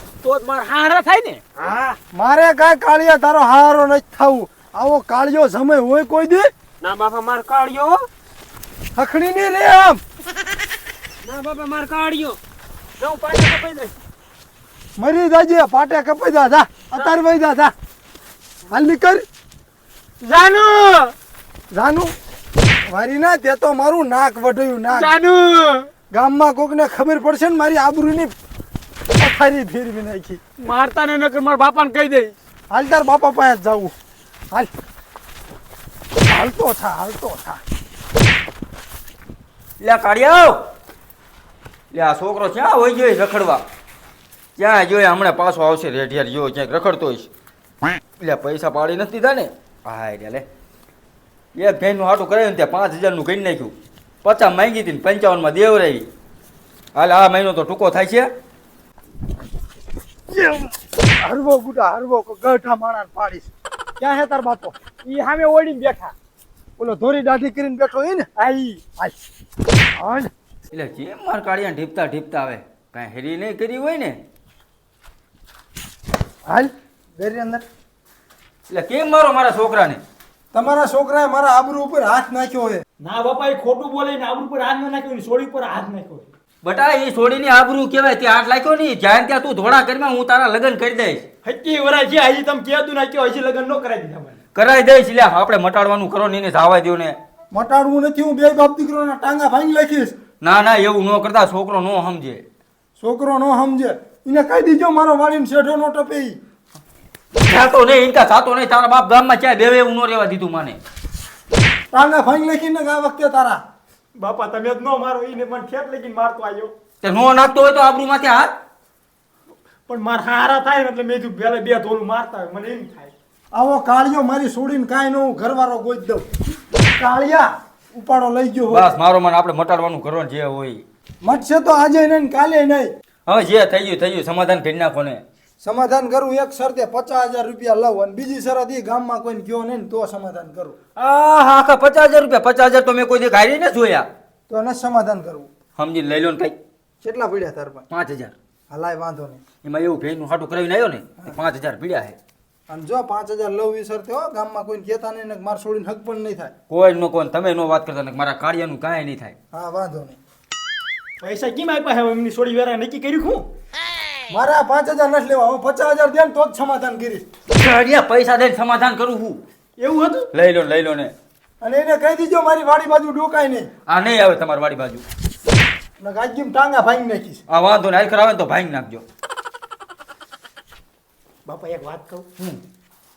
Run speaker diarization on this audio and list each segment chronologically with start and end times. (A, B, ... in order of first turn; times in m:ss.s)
0:00.2-0:01.4 A
0:01.6-0:02.0 B
0:02.1-0:06.5 C
0:06.8-0:08.0 B
0:09.0-0:10.0 C
0:11.2-0:12.4 B
0:13.0-0:13.9 B
0:15.0-0:17.7 C
0:18.7-0:19.2 C
0:20.2-0:21.1 A
0:21.7-0:22.1 C
0:22.8-0:25.1 C
0:25.0-0:25.9 A
0:26.1-0:28.3 C
0:29.2-0:30.4 C
0:30.6-0:32.3 A
0:32.7-0:33.9 C
0:36.3-0:37.6 C
0:39.8-0:40.6 D
0:41.9-0:43.6 D
0:44.6-0:47.3 D
0:48.2-0:50.4 D
0:51.5-0:56.1 D
0:56.9-0:58.3 D
1:00.3-1:04.8 C
1:05.0-1:06.1 A
1:06.8-1:08.3 C
1:08.4-1:08.9 A
1:10.0-1:10.3 C
1:10.7-1:14.2 D
1:16.4-1:17.6 C
1:18.7-1:20.0 D
1:20.5-1:22.8 C
1:23.0-1:26.3 A
1:26.6-1:31.2 D
1:31.4-1:34.4 A
1:34.5-1:37.2 D
1:37.5-1:40.2 C
1:40.4-1:42.4 D
1:43.0-1:46.4 C
1:47.4-1:50.8 D
1:51.9-1:53.6 C
1:54.2-1:56.7 A
1:57.0-1:58.5 D
1:59.9-2:03.1 A
2:03.5-2:08.9 C
2:08.7-2:10.8 D
2:11.2-2:12.9 C
2:13.3-2:15.2 D
2:15.6-2:20.8 C
2:21.0-2:24.1 D
2:24.5-2:25.5 C
2:25.8-2:26.6 D
2:27.0-2:27.8 C
2:27.9-2:28.3 D
2:28.7-2:29.4 C
2:29.6-2:32.2 D
2:32.7-2:36.5 C
2:36.7-2:39.3 D
2:39.5-2:40.2 C
2:41.2-2:43.4 A
2:44.3-2:47.2 C
2:47.5-2:49.4 D
2:49.8-2:50.3 A
2:50.3-2:51.1 D
2:51.6-2:53.7 C
2:53.9-2:55.0 D
2:56.0-2:57.4 C
2:57.5-2:59.0 D
3:01.4-3:02.3 A